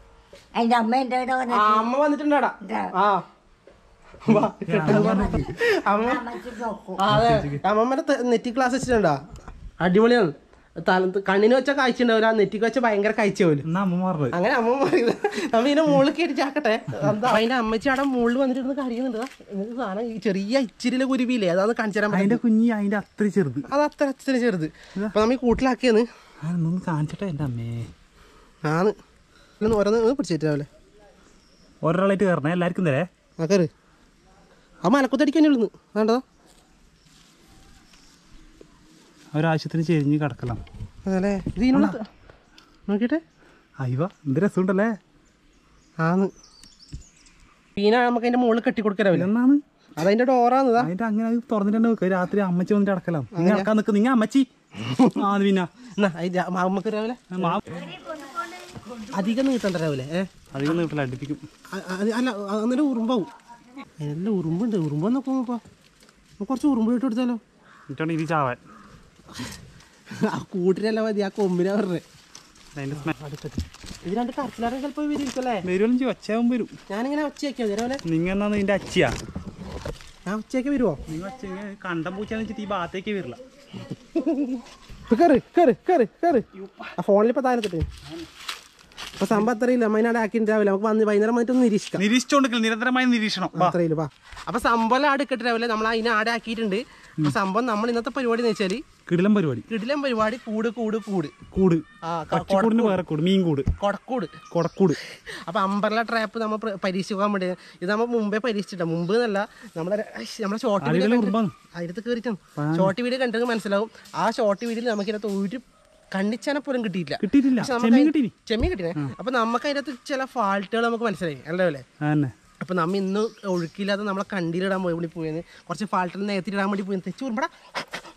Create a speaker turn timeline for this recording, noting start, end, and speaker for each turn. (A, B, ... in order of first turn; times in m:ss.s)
0:00.5-0:01.9 A
0:01.5-0:03.2 B
0:04.2-0:06.3 B
0:04.3-0:05.4 C
0:04.8-0:07.0 A
0:07.0-0:09.2 B
0:07.0-0:07.6 C
0:09.8-0:13.6 B
0:13.6-0:14.3 C
0:14.3-0:22.4 B
0:22.1-0:23.7 C
0:23.7-0:26.0 B
0:26.4-0:27.9 C
0:28.6-0:28.9 B
0:29.6-0:30.7 B
0:31.8-0:33.1 C
0:33.4-0:33.7 B
0:34.8-0:36.2 B
0:39.3-0:40.6 C
0:41.0-0:42.0 B
0:41.7-0:42.0 C
0:42.9-0:43.2 B
0:43.8-0:45.0 C
0:46.0-0:46.3 B
0:47.8-0:49.3 B
0:49.1-0:49.6 C
0:50.0-0:50.9 B
0:50.8-0:54.5 C
0:53.3-0:53.7 B
0:54.8-0:55.2 B
0:55.2-0:55.7 C
0:56.0-0:57.6 B
0:57.4-0:57.8 C
0:59.1-1:00.3 B
1:00.5-1:01.4 C
1:01.7-1:03.3 B
1:04.0-1:05.6 B
1:06.4-1:07.4 B
1:07.9-1:08.6 C
1:10.2-1:12.0 B
1:12.8-1:13.3 C
1:12.9-1:15.6 B
1:15.6-1:16.7 C
1:16.9-1:18.0 B
1:18.0-1:19.1 C
1:20.2-1:21.0 B
1:21.1-1:23.4 C
1:24.0-1:26.4 B
1:26.6-1:26.9 C
1:27.0-1:27.9 B
1:29.2-1:32.0 B
1:32.0-1:33.8 C
1:33.5-1:38.8 B
1:39.1-1:39.6 C
1:39.7-1:41.3 B
1:41.5-1:43.7 C
1:42.0-1:43.0 B
1:43.8-1:44.4 B
1:44.5-1:45.0 C
1:45.0-2:01.8 B
1:50.8-1:51.5 C
1:52.6-1:52.9 C
1:57.2-1:58.3 C
2:02.0-2:02.3 C
2:02.6-2:07.5 B